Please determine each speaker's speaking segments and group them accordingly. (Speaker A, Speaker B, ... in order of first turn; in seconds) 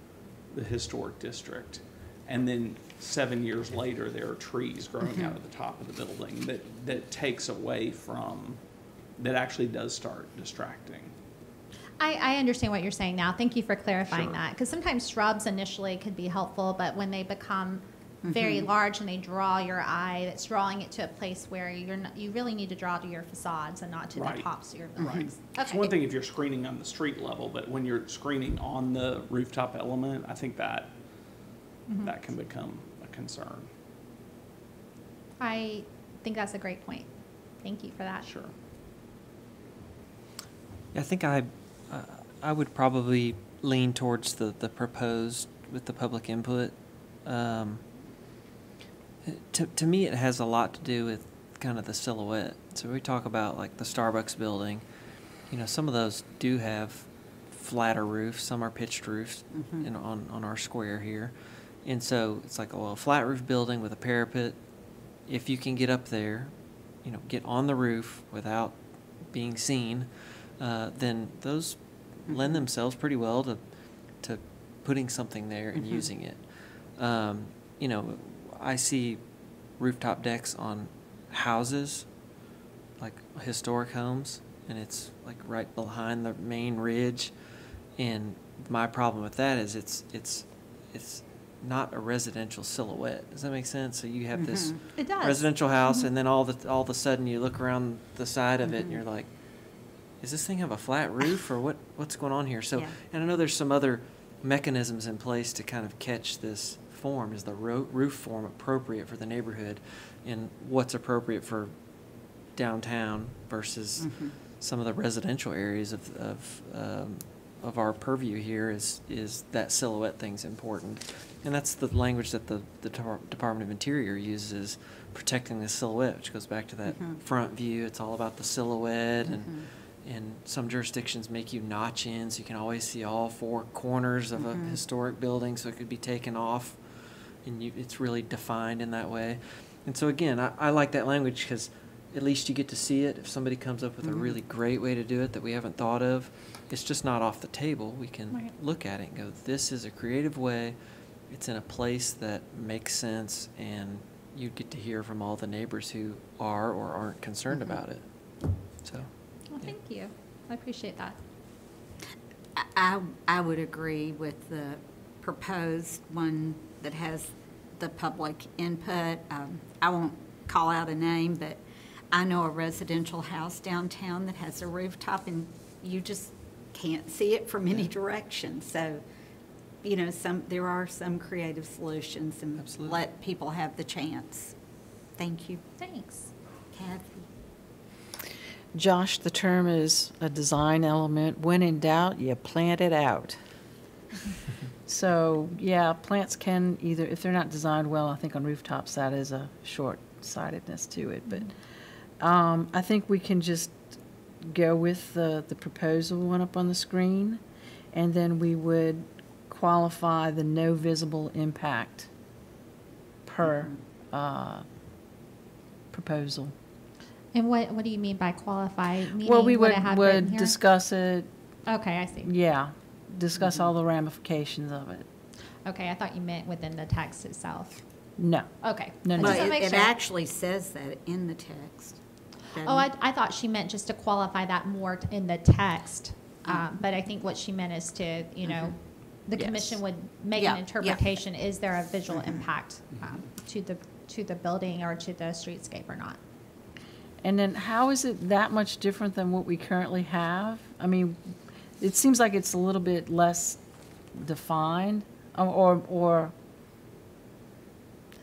Speaker A: 0.5-8.6, 9.2-11.1, 14.1-14.4, 24.2-24.5, 25.0-30.9, 32.0-33.7, 38.2-38.5
Speaker B: 12.0-25.9, 31.9-32.1, 35.4-37.1, 37.6-38.3, 95.0-96.1, 159.5-161.2, 185.8-186.3, 217.3-220.6, 221.7-222.3, 225.7-227.8, 228.6-229.9, 232.6-246.2
Speaker C: 18.2-18.7, 59.5-59.9, 72.3-72.6, 75.8-76.1, 94.4-94.8, 98.7-99.0, 114.0-114.3, 126.9-127.2, 129.3-129.7, 134.4-134.8, 162.6-171.6, 172.1-179.0, 179.8-184.5, 185.2-185.6, 186.7-187.3, 229.2-232.0, 232.5-232.9, 239.4-239.8, 240.4-241.0
Speaker D: 40.9-47.8, 49.2-54.8, 55.5-64.6, 65.3-73.6, 74.2-79.2, 79.8-82.1, 83.0-87.3, 88.0-99.3, 100.2-111.7, 112.5-150.8, 151.3-158.1, 158.8-159.1, 182.6-183.0
Speaker E: 188.7-193.4, 194.9-207.4, 207.9-212.1, 213.2-214.7, 215.9-216.5, 219.2-221.3, 222.2-225.1, 228.2-229.5, 247.2-253.6, 254.1-256.3